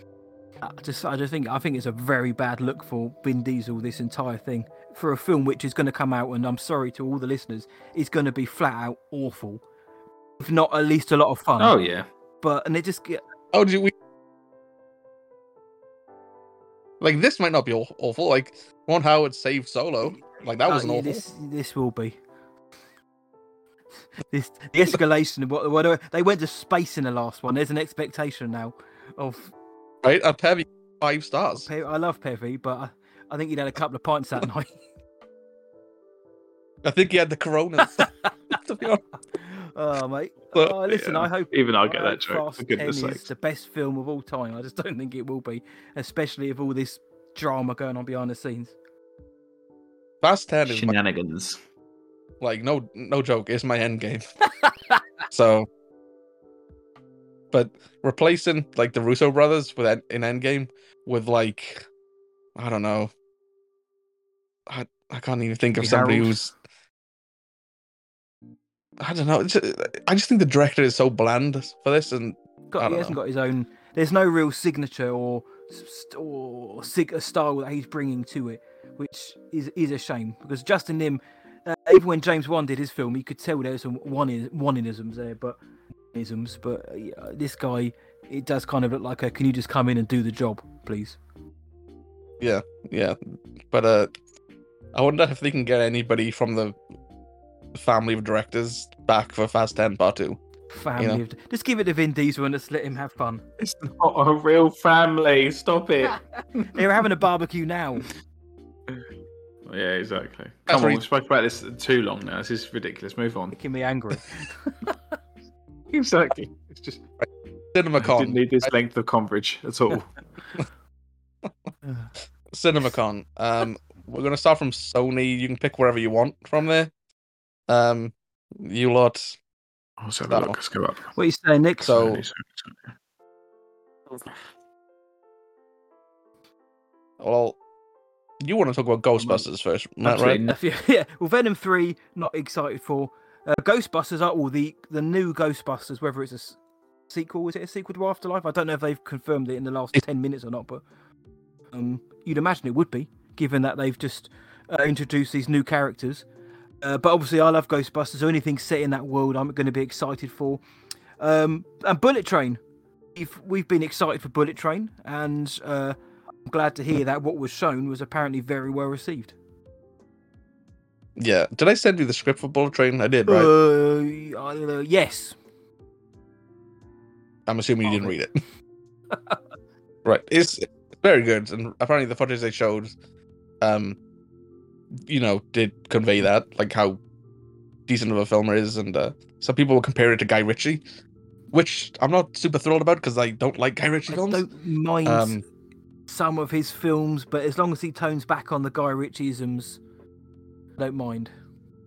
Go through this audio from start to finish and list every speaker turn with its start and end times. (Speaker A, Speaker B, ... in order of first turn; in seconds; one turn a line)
Speaker A: 0.6-9.6
Speaker A: 10.4-11.7
Speaker B: 11.6-12.1
Speaker A: 12.4-13.2
Speaker C: 13.5-13.9
Speaker C: 17.0-21.2
Speaker A: 20.7-22.2
Speaker A: 24.3-29.5
Speaker C: 30.0-31.7
Speaker A: 31.6-34.7
Speaker C: 36.8-39.0
Speaker A: 39.3-48.7
Speaker B: 40.9-43.2
Speaker C: 50.2-51.0
Speaker B: 50.6-51.6
Speaker C: 52.4-54.3
Speaker C: 55.3-55.7
Speaker C: 57.5-61.9
Speaker C: 62.6-63.1
Speaker C: 64.7-66.5
Speaker A: 65.8-66.3
Speaker C: 69.0-73.2
Speaker A: 72.7-85.6
Speaker A: 86.1-91.2
Speaker C: 92.4-94.1
Speaker C: 94.9-96.8
Speaker C: 97.7-100.4
Speaker A: 100.7-103.4
Speaker C: 101.0-101.2
Speaker B: 103.6-106.8
Speaker A: 106.7-108.1
Speaker B: 109.7-113.6
Speaker C: 110.7-111.0
Speaker A: 113.5-114.5
Speaker B: 115.9-117.0
Speaker C: 117.2-118.7
Speaker B: 118.0-120.1
Speaker C: 122.5-126.9
Speaker C: 127.7-129.4
Speaker B: 130.0-131.1
Speaker C: 130.3-130.6
Speaker A: 131.2-131.9
Speaker C: 131.8-132.2
Speaker B: 131.9-132.9
Speaker C: 137.2-137.6
Speaker C: 138.4-140.4
Speaker B: 140.0-140.6
Speaker A: 140.5-146.6
Speaker A: 147.1-150.8
Speaker A: 151.7-156.2
Speaker A: 156.8-160.6
Speaker A: 161.2-162.6
Speaker A: 163.2-169.4
Speaker C: 171.2-173.5
Speaker A: 173.3-175.4
Speaker C: 177.5-178.4
Speaker A: 177.9-178.1
Speaker A: 179.1-179.4
Speaker C: 180.1-182.9
Speaker C: 183.6-184.0
Speaker C: 185.0-187.0
Speaker C: 187.9-190.8
Speaker C: 191.5-194.5
Speaker A: 194.1-195.4
Speaker C: 195.1-195.4
Speaker A: 196.1-199.8
Speaker A: 200.8-201.3